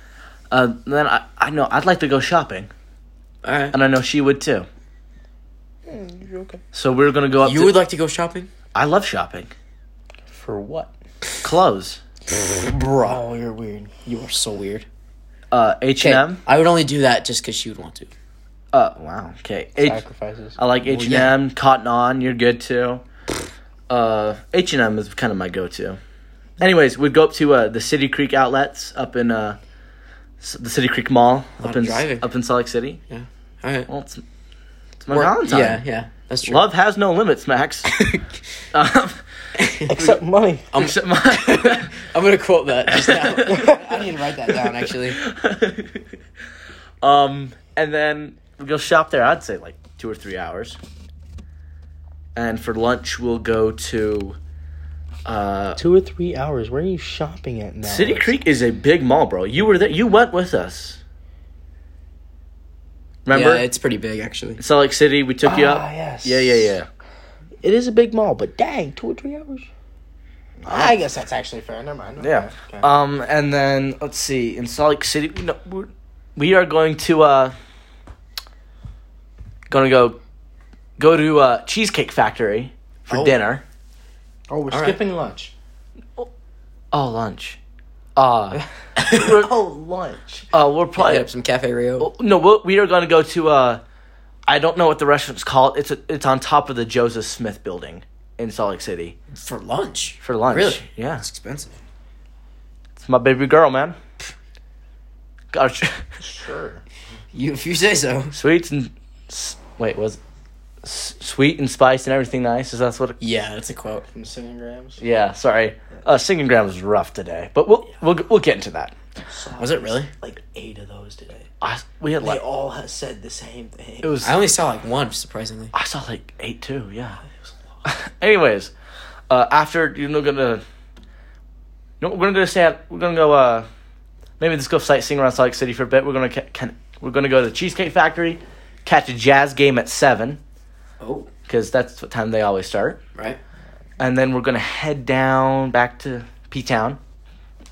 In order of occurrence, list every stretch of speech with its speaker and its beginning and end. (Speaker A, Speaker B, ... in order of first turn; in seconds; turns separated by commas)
Speaker A: 0.5-2.7, Speaker B: 3.4-3.8, Speaker A: 3.7-4.7, Speaker C: 5.9-6.6, Speaker A: 6.7-7.8, Speaker B: 7.4-8.5, Speaker A: 8.7-9.5, Speaker C: 10.3-10.9, Speaker A: 11.4-12.0, Speaker C: 12.5-13.9, Speaker B: 14.1-14.8, Speaker A: 15.5-16.4, Speaker B: 16.0-18.1, Speaker A: 18.7-20.0, Speaker C: 19.8-20.6, Speaker A: 20.6-23.0, Speaker B: 20.9-21.3, Speaker A: 23.9-26.0, Speaker A: 26.6-29.6, Speaker A: 30.4-33.0, Speaker B: 31.6-32.2, Speaker B: 33.1-33.9, Speaker A: 33.9-34.2, Speaker A: 35.0-35.8, Speaker B: 35.1-36.6, Speaker A: 36.4-38.0, Speaker B: 37.9-38.4, Speaker A: 38.7-39.2, Speaker B: 39.6-40.0, Speaker C: 39.9-40.8, Speaker A: 39.9-40.2, Speaker B: 40.7-45.2, Speaker A: 40.7-42.0, Speaker A: 42.9-43.5, Speaker C: 43.3-44.7, Speaker A: 45.0-46.1, Speaker A: 47.0-50.8, Speaker A: 52.3-54.4, Speaker A: 55.2-55.8, Speaker C: 55.8-58.4, Speaker A: 57.8-61.0, Speaker A: 63.2-63.6, Speaker B: 63.3-64.6, Speaker A: 64.6-66.9, Speaker C: 65.4-66.7, Speaker C: 67.6-69.7, Speaker A: 70.6-71.0, Speaker C: 70.7-72.9, Speaker A: 72.2-77.5, Speaker A: 79.7-80.2, Speaker A: 81.0-83.6, Speaker C: 84.5-85.5, Speaker B: 84.7-85.0, Speaker A: 86.9-87.6, Speaker A: 88.2-88.6, Speaker C: 88.6-90.5, Speaker B: 89.0-89.3, Speaker A: 89.1-89.5, Speaker A: 90.5-91.3, Speaker B: 91.0-92.1, Speaker A: 92.0-93.8, Speaker A: 94.5-99.2, Speaker B: 99.3-101.7, Speaker A: 100.2-101.2, Speaker A: 103.0-104.0, Speaker A: 105.5-106.0, Speaker C: 106.2-106.8, Speaker B: 107.3-108.3, Speaker A: 108.3-110.2, Speaker A: 110.8-113.2, Speaker B: 113.2-114.0, Speaker C: 114.1-115.0, Speaker A: 115.0-118.9, Speaker C: 119.2-121.5, Speaker B: 119.6-120.1, Speaker A: 121.6-122.4, Speaker C: 122.2-124.1, Speaker A: 124.0-124.3, Speaker B: 124.2-125.7, Speaker A: 125.7-127.2, Speaker A: 127.8-128.7, Speaker A: 129.3-130.6, Speaker A: 132.0-133.7, Speaker A: 134.4-140.4, Speaker B: 141.0-141.3, Speaker A: 141.5-143.0, Speaker A: 144.0-147.0